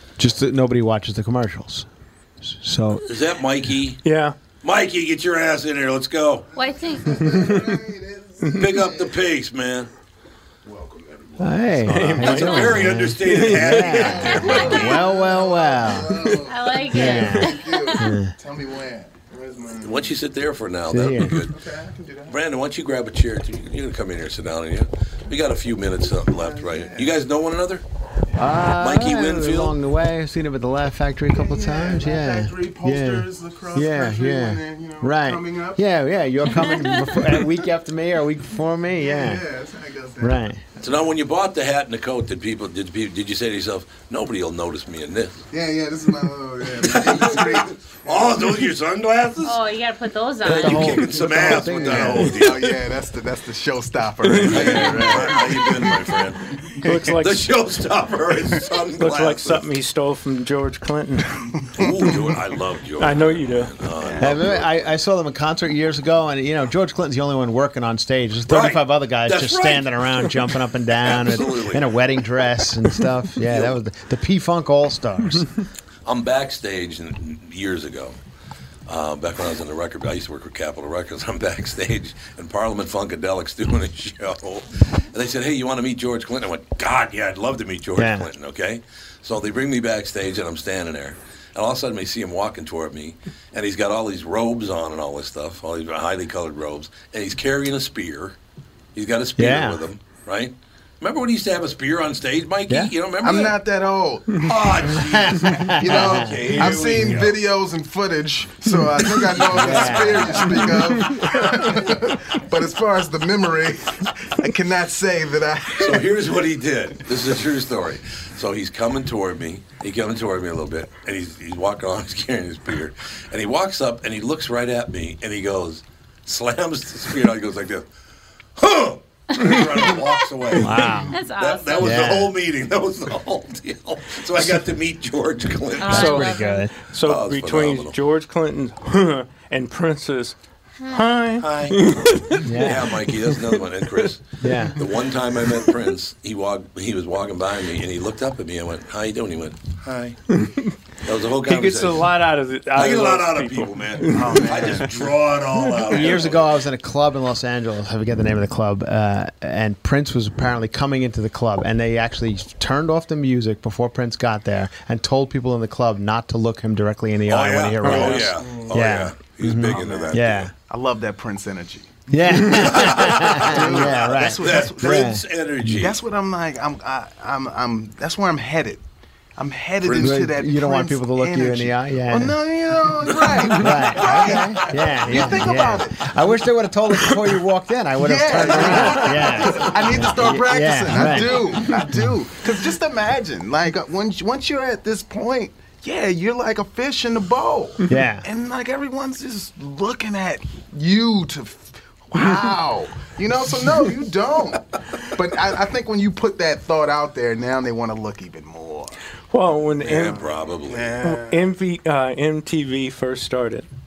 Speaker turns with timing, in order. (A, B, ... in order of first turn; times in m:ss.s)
0:00.2-0:01.8 A
0:02.4-0:03.1 A
0:03.1-0:04.0 B
0:04.0-0:04.4 C
0:04.6-0:06.5 B
0:06.5-0:09.4 D
0:06.5-0:07.5 E
0:07.2-0:07.7 C
0:08.5-0:09.9 B
0:10.6-0:11.8 D
0:11.4-0:16.2 A
0:11.8-0:15.1 B
0:11.9-0:14.3 C
0:13.7-0:20.2 D
0:14.0-0:15.0 E
0:16.4-0:18.1 E
0:16.9-0:18.3 A
0:19.8-0:21.6 B
0:20.9-0:21.5 A
0:21.4-0:22.4 D
0:22.3-0:27.8 B
0:26.3-0:27.2 D
0:28.4-0:39.4 A
0:28.8-0:29.8 B
0:31.3-0:35.8 D
0:36.6-0:37.0 E
0:36.8-0:37.5 D
0:38.9-0:40.9 D
0:40.2-0:40.6 A
0:40.8-0:45.4 B
0:45.5-0:48.7 D
0:46.9-0:49.6 B
0:49.4-0:51.1 E
0:50.4-0:52.5 A
0:50.4-0:52.8 B
0:51.2-0:57.0 D
0:54.2-0:54.6 C
0:54.4-0:59.7 B
0:54.6-0:55.4 A
0:56.8-0:57.5 C
0:58.3-0:58.6 D
0:59.0-1:01.5 C
1:01.6-1:02.4 D
1:01.8-1:04.8 B
1:03.0-1:03.7 C
1:04.0-1:04.3 D
1:04.2-1:15.5 A
1:08.5-1:12.1 B
1:13.4-1:13.8 B
1:16.0-1:18.2 B
1:18.9-1:38.4 B
1:28.0-1:28.3 A
1:38.9-1:43.6 B
1:39.4-1:39.8 A
1:43.2-1:56.4 D
1:44.3-1:47.4 B
1:44.9-1:47.2 A
1:49.3-1:50.4 B
1:49.4-1:50.8 A
1:50.9-1:51.5 C
1:55.8-2:07.8 B
2:08.6-2:16.1 B
2:09.4-2:09.9 C
2:10.6-2:11.2 A
2:11.0-2:12.1 E
2:11.8-2:12.4 A
2:15.8-2:16.7 E
2:15.9-2:16.7 A
2:15.9-2:22.5 C
2:17.0-2:18.0 B
2:21.4-2:30.2 B
2:22.4-2:23.1 A
2:24.4-2:24.8 A
2:30.3-2:30.8 C
2:31.0-2:32.2 B
2:31.4-2:34.8 C
2:32.7-2:36.6 B
2:34.1-2:35.3 D
2:35.8-2:50.5 A
2:47.3-2:50.5 B
2:47.8-2:48.2 C
2:48.2-2:48.9 D
2:49.7-2:50.1 D
2:50.7-2:58.8 D
2:52.1-2:55.7 A
2:52.4-2:56.0 B
2:59.4-3:06.4 D
2:59.8-3:00.2 B
3:00.0-3:02.3 A
3:03.2-3:05.3 B
3:03.5-3:12.1 A
3:08.0-3:29.0 D
3:17.9-3:18.2 A
3:29.3-3:30.2 C
3:29.8-3:31.0 B
3:29.9-3:31.6 D
3:31.0-3:33.7 C